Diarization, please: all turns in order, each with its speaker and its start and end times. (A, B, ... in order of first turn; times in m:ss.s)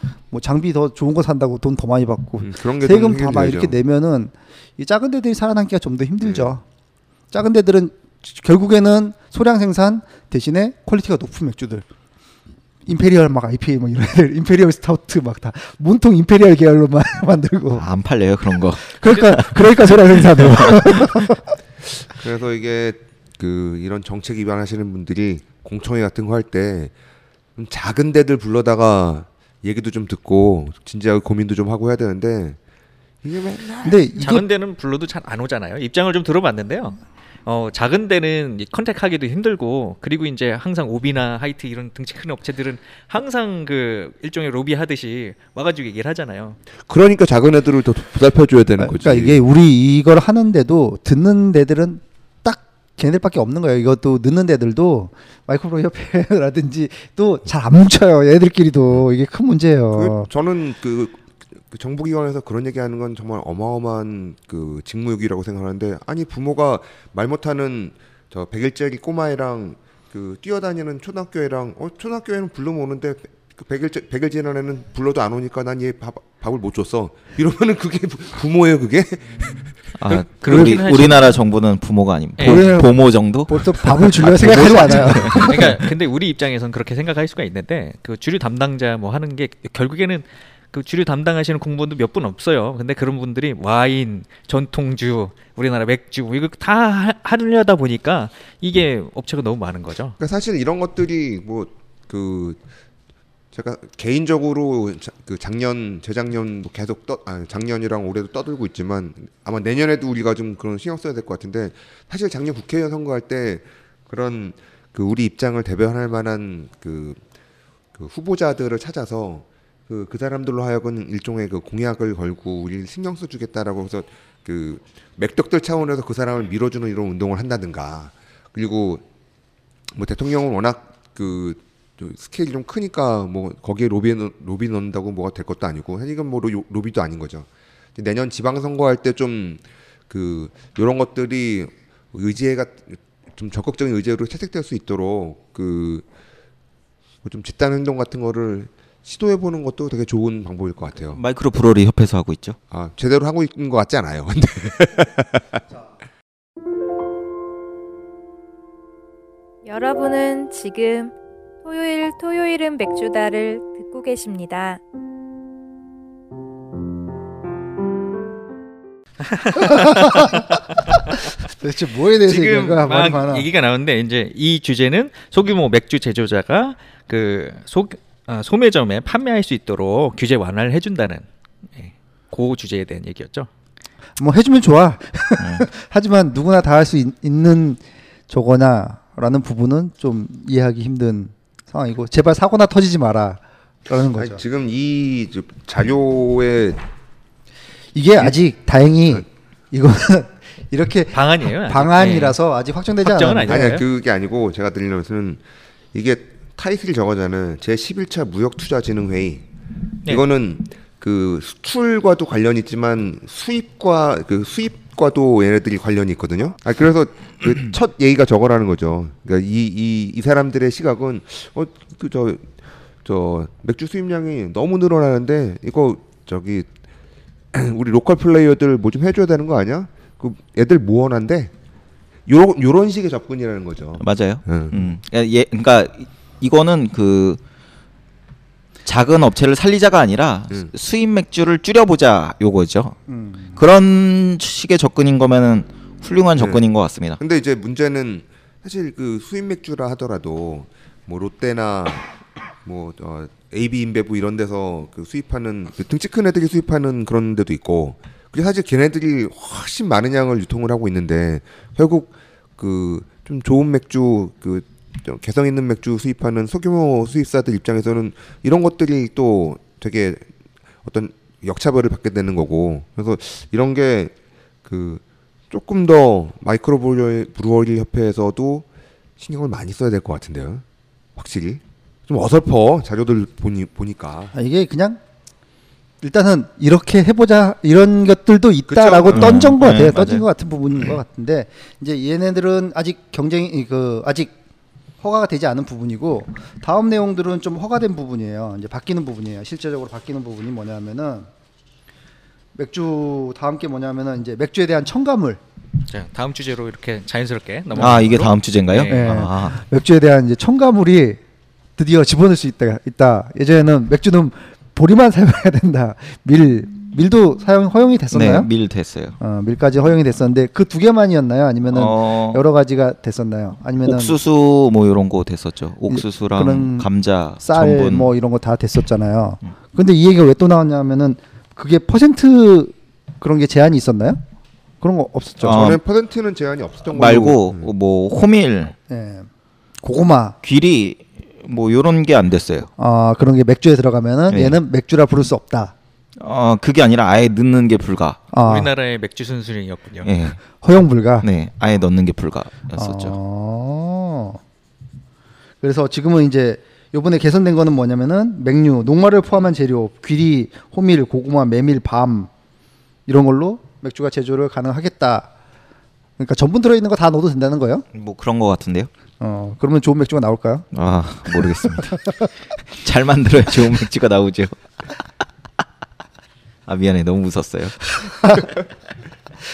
0:00.3-0:06.6 A
0:02.4-0:03.7 B
0:06.2-0:06.5 B
0:07.3-0:11.8 A
0:12.8-0:17.8 A
0:17.7-0:21.2 C
0:18.9-0:21.6 A
0:22.2-0:26.9 B
0:27.6-0:32.6 B
0:33.2-0:34.0 B
0:33.8-0:34.4 A
0:34.2-0:46.6 D
0:46.9-0:49.4 B
0:48.8-1:00.3 A
0:59.9-1:19.7 B
1:19.9-1:25.9 C
1:20.1-1:21.3 D
1:22.4-1:22.6 D
1:22.4-1:25.7 A
1:25.3-1:40.2 D
1:40.2-1:42.6 B
1:43.5-1:57.2 B
1:57.9-2:09.0 B
2:09.9-2:26.0 B
2:27.2-2:31.2 B
2:31.1-2:32.6 C
2:32.7-2:35.6 B
2:39.6-2:44.8 E
2:49.2-2:50.6 D
2:49.9-2:50.2 A
2:51.5-2:53.5 A
2:52.2-3:03.5 D
3:04.2-3:14.4 A
3:05.4-3:05.7 C
3:14.2-3:16.8 B
3:17.9-3:23.7 A
3:21.1-3:22.4 D
3:23.0-3:23.8 D
3:23.5-3:25.4 B
3:25.9-3:29.4 B
3:30.0-3:42.5 B
3:43.0-3:46.7 B
3:47.5-3:51.5 B
3:52.3-3:54.8 B
3:54.0-3:57.4 C
3:58.8-4:03.0 C
4:03.1-4:03.6 A
4:03.6-4:07.2 C
4:06.4-4:06.6 B
4:07.2-4:12.1 B
4:12.6-4:30.2 B
4:30.8-4:34.1 B
4:34.6-4:38.6 B
4:39.2-4:40.6 B
4:41.2-4:44.3 B
4:44.3-4:45.0 A
4:46.0-4:54.3 A
4:48.7-4:49.4 B
4:49.1-4:50.2 C
4:55.0-5:01.3 A
5:02.5-5:05.4 A
5:05.9-5:09.1 D
5:07.8-5:08.1 A
5:07.8-5:09.6 C
5:08.8-5:11.2 A
5:11.8-5:18.5 A
5:18.1-5:19.2 C
5:19.2-5:24.2 A
5:21.7-5:22.4 C
5:23.8-5:28.1 C
5:25.9-5:26.9 A
5:27.4-5:34.2 A
5:34.8-5:35.8 A
5:35.4-5:35.8 C
5:35.4-5:37.7 B
5:36.9-5:38.8 C
5:38.9-5:39.3 A
5:39.8-5:40.4 A
5:40.4-5:42.7 C
5:42.8-5:45.7 A
5:44.3-5:44.6 C
5:46.2-5:48.2 C
5:48.3-5:48.7 A
5:48.4-5:50.1 D
5:50.0-5:50.4 C
5:50.6-5:51.2 A
5:51.2-5:53.1 C
5:52.7-5:54.4 A
5:55.6-6:02.3 A
6:03.1-6:05.3 A
6:06.2-6:07.8 A
6:07.9-6:08.9 C
6:09.2-6:10.6 A
6:10.7-6:12.0 C
6:11.3-6:12.3 A
6:12.7-6:14.5 C
6:16.6-6:17.8 C
6:17.9-6:18.5 A